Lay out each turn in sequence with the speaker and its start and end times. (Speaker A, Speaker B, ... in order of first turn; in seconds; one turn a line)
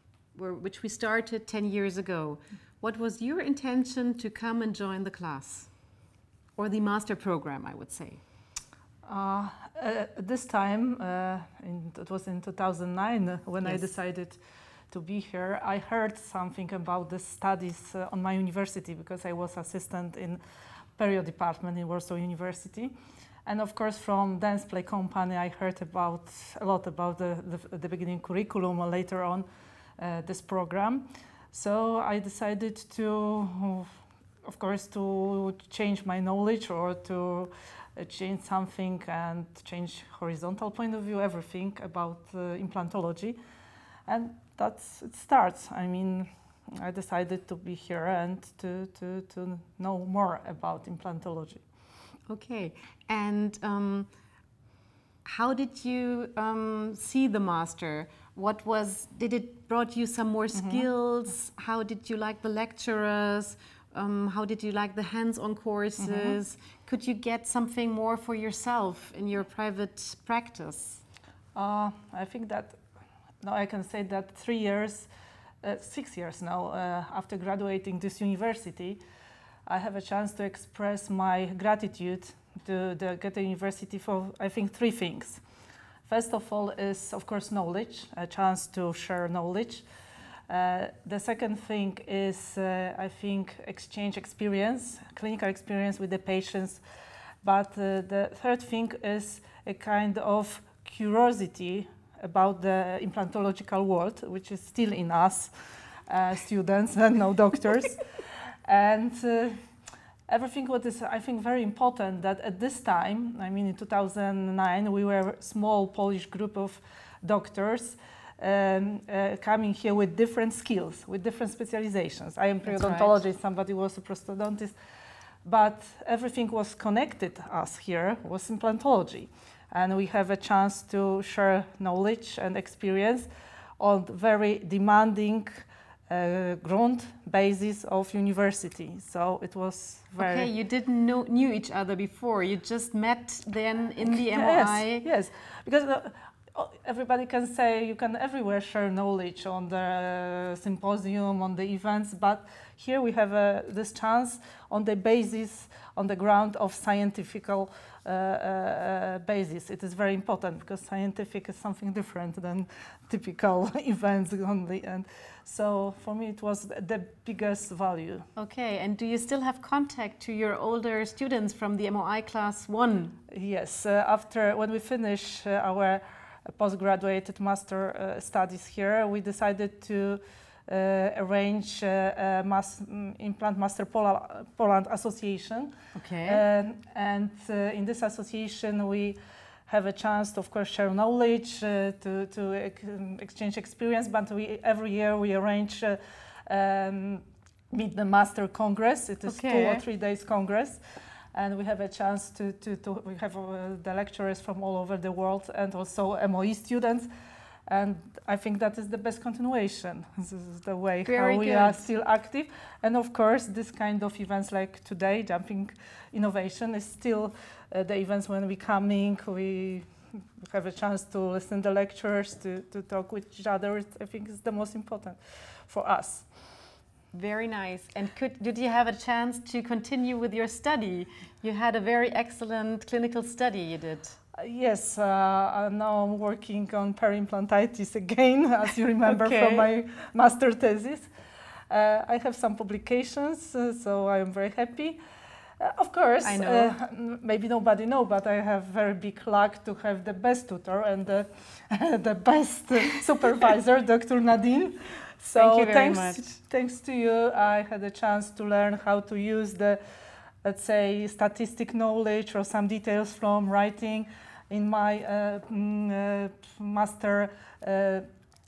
Speaker A: 0.3-5.8
Speaker A: 6.6-8.2
Speaker B: 9.1-14.4
Speaker B: 14.9-20.4
Speaker B: 21.0-22.9
Speaker B: 23.5-29.5
Speaker B: 30.0-33.9
Speaker B: 34.4-43.4
Speaker B: 44.1-51.6
Speaker A: 52.3-54.1
Speaker A: 55.2-71.0
Speaker B: 60.5-60.9
Speaker B: 66.0-66.4
Speaker B: 71.5-72.8
Speaker B: 73.4-75.1
Speaker B: 75.6-79.0
Speaker B: 79.7-85.4
Speaker B: 86.1-89.8
Speaker B: 90.5-96.8
Speaker B: 97.4-105.5
Speaker B: 106.1-109.6
Speaker B: 110.3-124.8
Speaker A: 122.7-123.2
Speaker B: 125.5-133.3
Speaker B: 133.8-140.5
Speaker A: 140.2-145.1
Speaker B: 144.0-168.3
Speaker A: 168.4-173.2
Speaker B: 173.3-185.7
Speaker A: 185.9-186.4
Speaker B: 186.2-200.8
Speaker A: 199.3-199.8
Speaker B: 201.3-207.1
Speaker B: 207.7-220.0
Speaker A: 211.0-211.8
Speaker B: 220.5-226.3
Speaker A: 227.1-234.2
Speaker B: 234.3-241.1
Speaker A: 239.1-239.7
Speaker B: 241.7-245.0
Speaker B: 245.6-259.8
Speaker A: 246.2-246.7
Speaker A: 255.4-256.3
Speaker B: 260.4-268.1